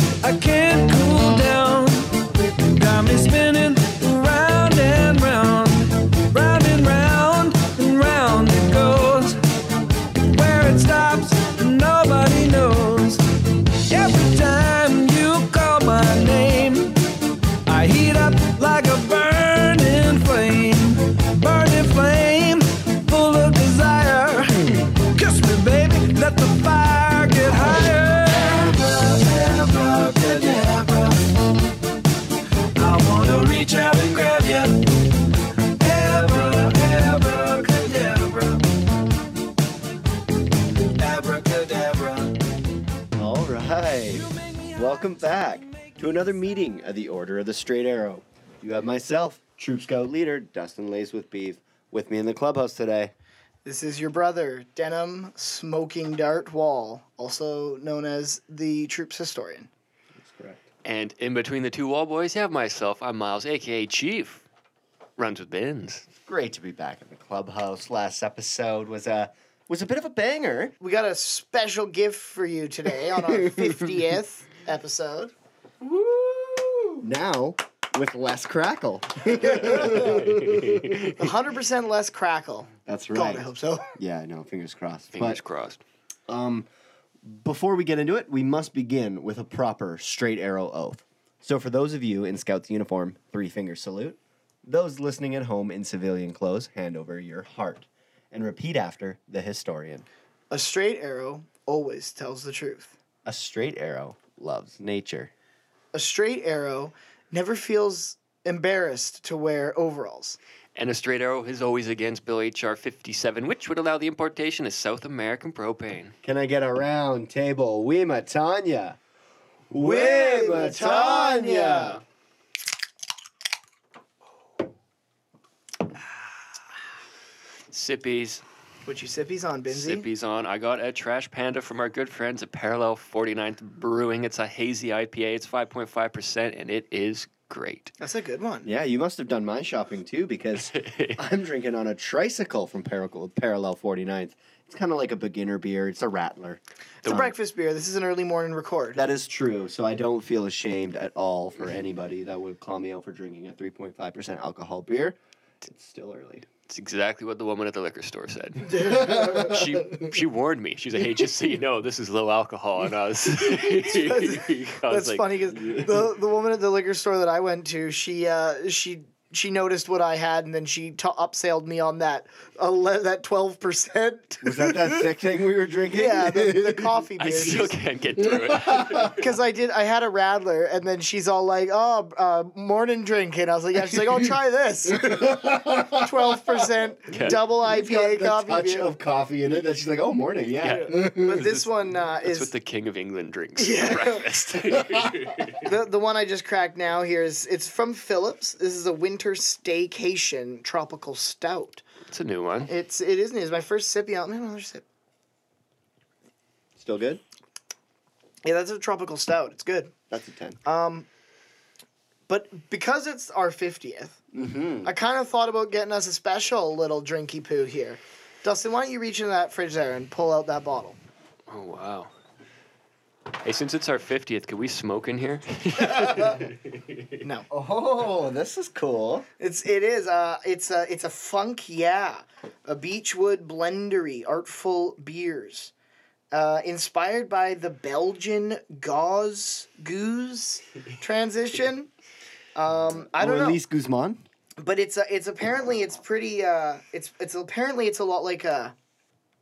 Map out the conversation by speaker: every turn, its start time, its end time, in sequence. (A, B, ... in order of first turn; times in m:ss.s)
0:00.2-0:02.1 A
0:02.6-0:09.4 A
0:10.2-0:13.2 A
0:13.9-0:17.0 A
0:17.7-0:31.3 A
0:32.8-0:34.9 A
0:35.8-0:38.8 A
0:40.9-0:42.4 A
0:43.2-0:53.1 B
0:44.1-0:45.9 A
0:53.6-0:59.7 C
1:00.2-1:00.6 B
1:00.8-1:04.4 D
1:05.2-1:06.1 D
1:06.3-1:10.8 B
1:10.8-1:15.3 C
1:13.1-1:14.0 B
1:15.8-1:20.9 B
1:19.4-1:20.2 C
1:20.0-1:21.1 D
1:21.2-1:23.9 C
1:22.9-1:25.4 B
1:25.1-1:25.8 D
1:26.3-1:26.7 B
1:27.2-1:40.1 B
1:40.5-1:43.0 C
1:43.2-1:45.3 B
1:45.9-1:50.4 C
1:50.8-1:56.2 D
1:56.2-1:59.0 B
1:59.7-2:02.0 B
1:59.8-2:02.0 C
2:07.7-2:08.4 D
2:08.8-2:10.0 C
2:09.7-2:18.0 D
2:18.0-2:18.7 C
2:18.6-2:27.3 B
2:20.6-2:21.2 D
2:27.0-2:29.0 C
2:28.9-2:36.5 B
2:36.7-2:45.6 D
2:38.7-2:39.6 C
2:38.8-2:39.8 B
2:43.8-2:55.0 C
2:54.4-2:56.9 B
2:55.9-2:57.7 C
2:57.2-2:59.3 D
2:59.0-3:08.9 C
3:05.1-3:06.4 B
3:07.1-3:07.4 D
3:07.2-3:11.4 B
3:10.6-3:15.6 D
3:10.7-3:12.5 C
3:13.6-3:14.2 C
3:15.6-3:21.8 C
3:22.1-3:22.7 D
3:22.7-3:24.8 C
3:26.8-3:27.2 B
3:28.4-3:29.9 C
3:30.1-3:30.6 B
3:30.6-3:31.1 C
3:32.3-3:34.2 C
3:34.3-3:34.9 B
3:34.8-3:41.0 C
3:41.5-3:42.1 D
3:43.4-3:46.4 D
3:45.9-3:46.3 C
3:47.2-3:47.5 C
3:47.5-3:49.3 B
3:49.4-3:55.7 C
3:56.3-4:01.9 C
4:02.6-4:03.6 C
4:03.0-4:04.2 B
4:04.6-4:08.7 C